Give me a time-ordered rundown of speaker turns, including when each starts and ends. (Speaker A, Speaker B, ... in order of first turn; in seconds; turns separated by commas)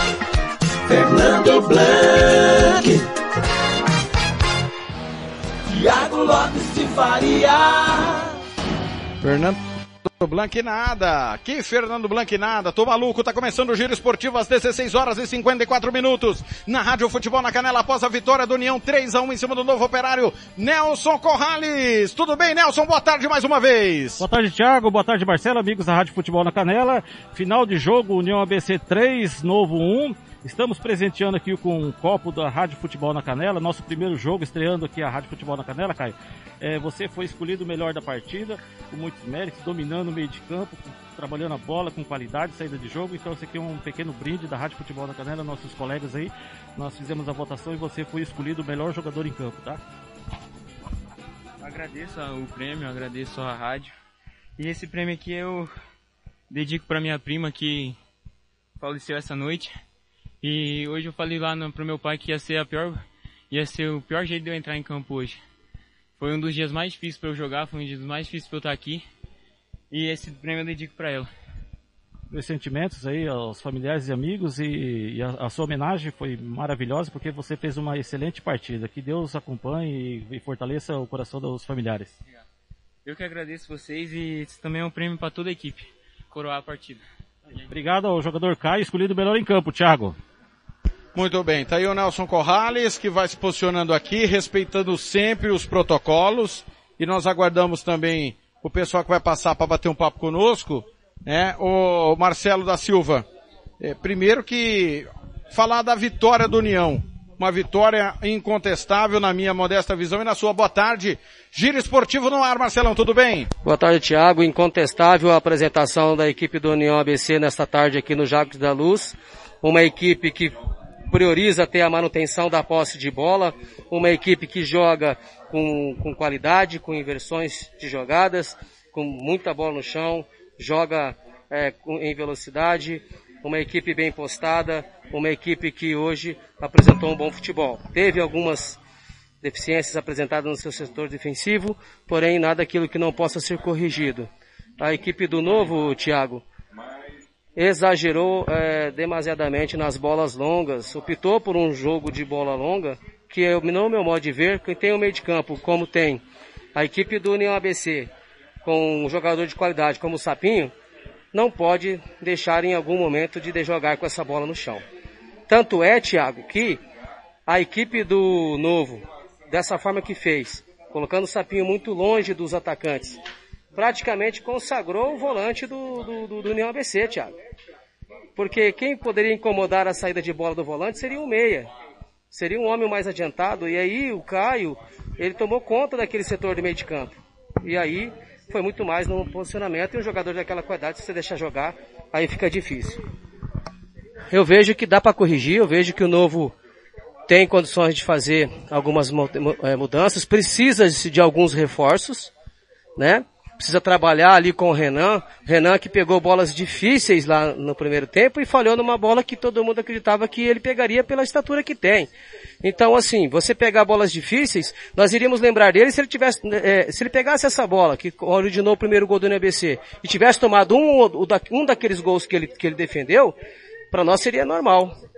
Speaker A: 0.9-3.1, Speaker A: 5.7-8.3, Speaker B: 9.2-24.2, Speaker C: 24.2-49.8, Speaker D: 51.6-53.9, Speaker D: 54.6-55.7, Speaker D: 56.5-58.0, Speaker D: 58.8-59.7, Speaker D: 60.4-65.4, Speaker D: 66.2-69.0, Speaker D: 69.9-71.3, Speaker C: 72.3-82.1, Speaker D: 83.0-87.0, Speaker C: 87.7-90.2, Speaker B: 91.1-103.2, Speaker B: 103.8-113.5, Speaker E: 113.6-120.5, Speaker E: 121.1-138.8, Speaker E: 139.4-144.3, Speaker E: 144.8-146.4, Speaker E: 147.6-156.2, Speaker E: 156.7-158.1, Speaker E: 158.6-160.7, Speaker E: 161.3-164.8, Speaker E: 165.5-166.8, Speaker E: 167.5-173.2, Speaker E: 173.7-177.3, Speaker E: 178.3-181.7, Speaker E: 182.3-193.0, Speaker E: 194.3-196.5, Speaker E: 197.3-202.3, Speaker E: 203.0-212.1, Speaker E: 212.6-223.4, Speaker E: 223.9-224.9